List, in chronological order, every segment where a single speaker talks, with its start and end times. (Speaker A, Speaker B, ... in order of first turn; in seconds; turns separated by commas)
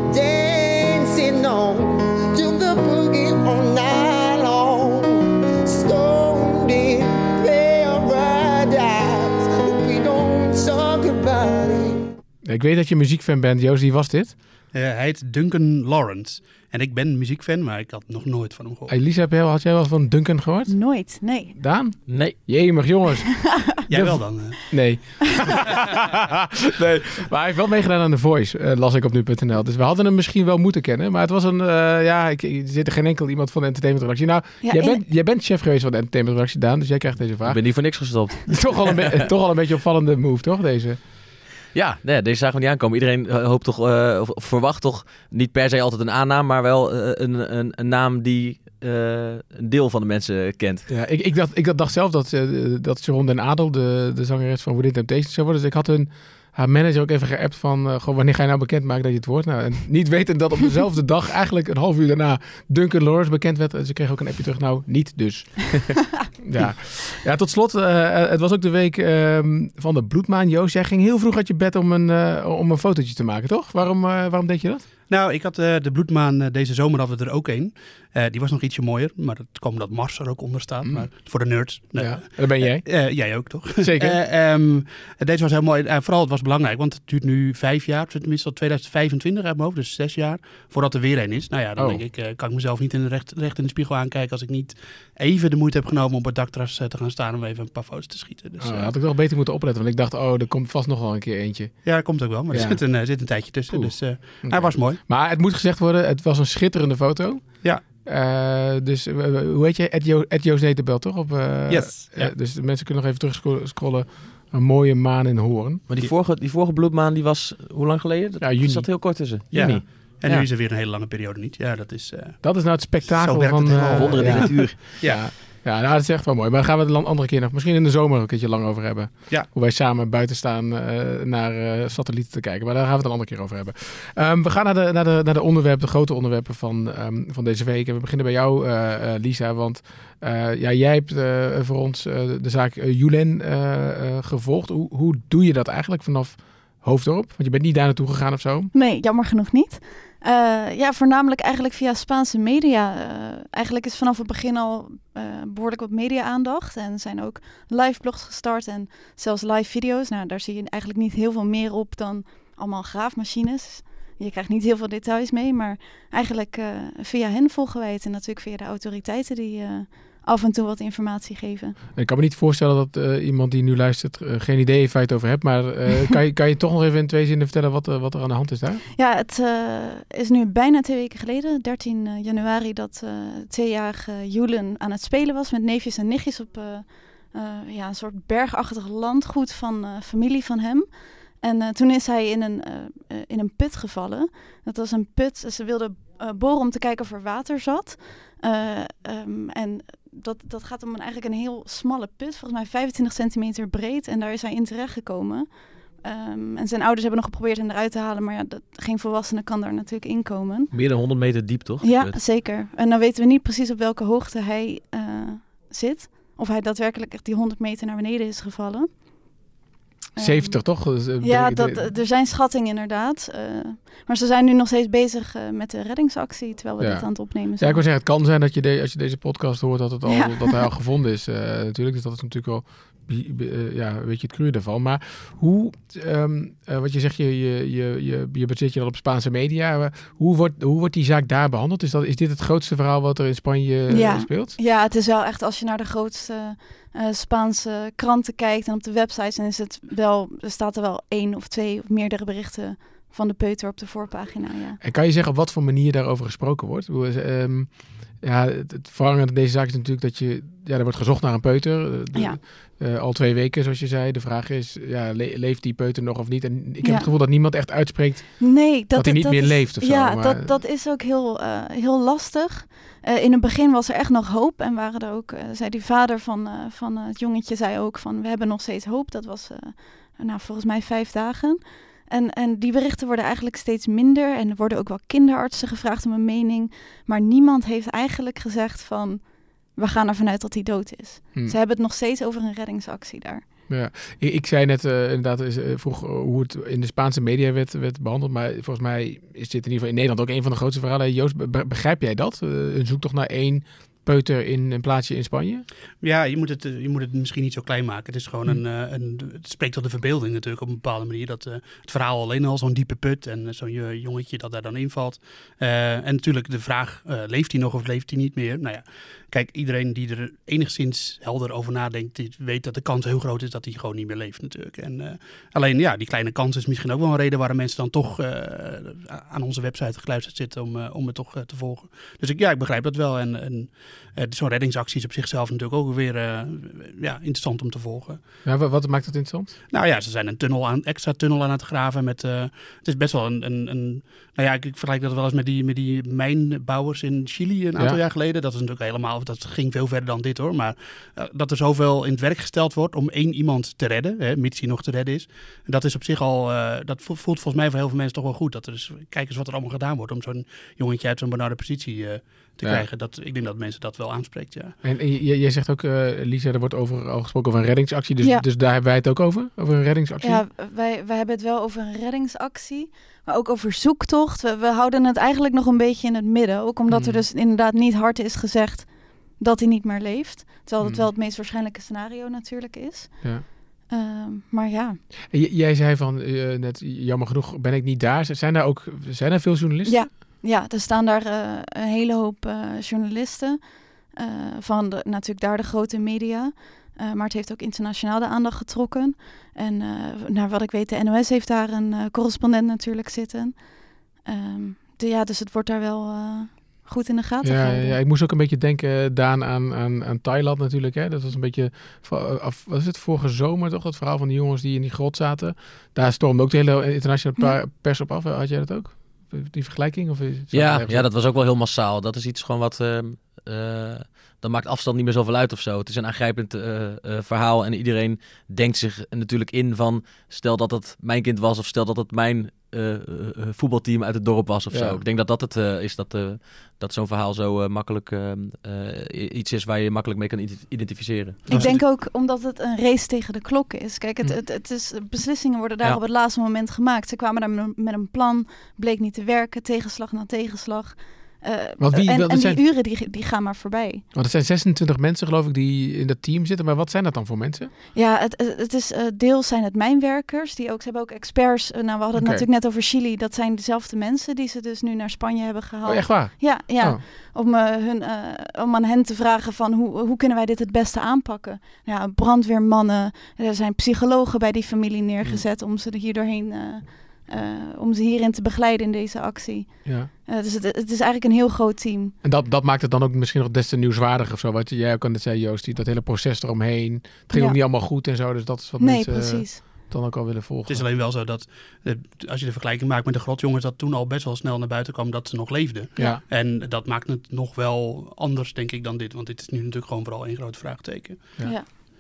Speaker A: 0.1-12.0, Speaker B: 12.4-14.3, Speaker C: 14.7-18.9, Speaker B: 18.9-37.6, Speaker D: 20.7-21.6, Speaker E: 22.1-22.4, Speaker D: 23.5-23.8, Speaker C: 23.9-24.7, Speaker D: 34.6-35.0, Speaker E: 37.5-39.0, Speaker B: 38.5-41.0, Speaker E: 41.7-50.9, Speaker B: 50.9-74.8, Speaker C: 75.1-98.9, Speaker B: 81.8-84.2, Speaker B: 91.8-92.0, Speaker B: 98.6-115.8, Speaker C: 101.8-105.0, Speaker C: 111.7-112.3, Speaker E: 115.9-120.5, Speaker B: 118.4-119.4, Speaker C: 119.5-122.5, Speaker B: 122.4-148.7, Speaker C: 123.1-125.2, Speaker E: 123.7-124.8, Speaker D: 148.7-171.8, Speaker B: 171.9-178.8, Speaker D: 179.0-210.7, Speaker E: 210.7-212.2, Speaker D: 211.8-219.4, Speaker D: 220.2-220.7, Speaker B: 220.2-221.9, Speaker D: 221.2-227.8, Speaker B: 226.8-244.6, Speaker D: 230.1-230.6, Speaker D: 243.9-254.8, Speaker B: 254.8-270.6, Speaker D: 266.8-267.1, Speaker D: 268.4-293.4, Speaker B: 293.7-305.7, Speaker C: 306.0-338.2, Speaker B: 338.4-339.5, Speaker C: 339.7-364.8, Speaker B: 364.8-370.4, Speaker D: 368.2-368.5, Speaker D: 370.2-385.0, Speaker B: 376.9-377.2, Speaker B: 380.8-381.1, Speaker B: 385.3-390.1, Speaker D: 389.9-408.0, Speaker B: 407.4-421.1, Speaker E: 420.5-441.5, Speaker B: 434.7-435.0, Speaker B: 441.5-441.8, Speaker C: 441.5-441.8, Speaker D: 441.5-454.0, Speaker B: 451.8-452.6, Speaker B: 454.1-457.7, Speaker D: 457.9-482.1, Speaker B: 462.2-462.5, Speaker B: 465.8-467.0, Speaker B: 482.2-490.9, Speaker D: 487.3-487.6, Speaker D: 488.8-489.7, Speaker C: 490.7-501.3, Speaker D: 501.4-501.7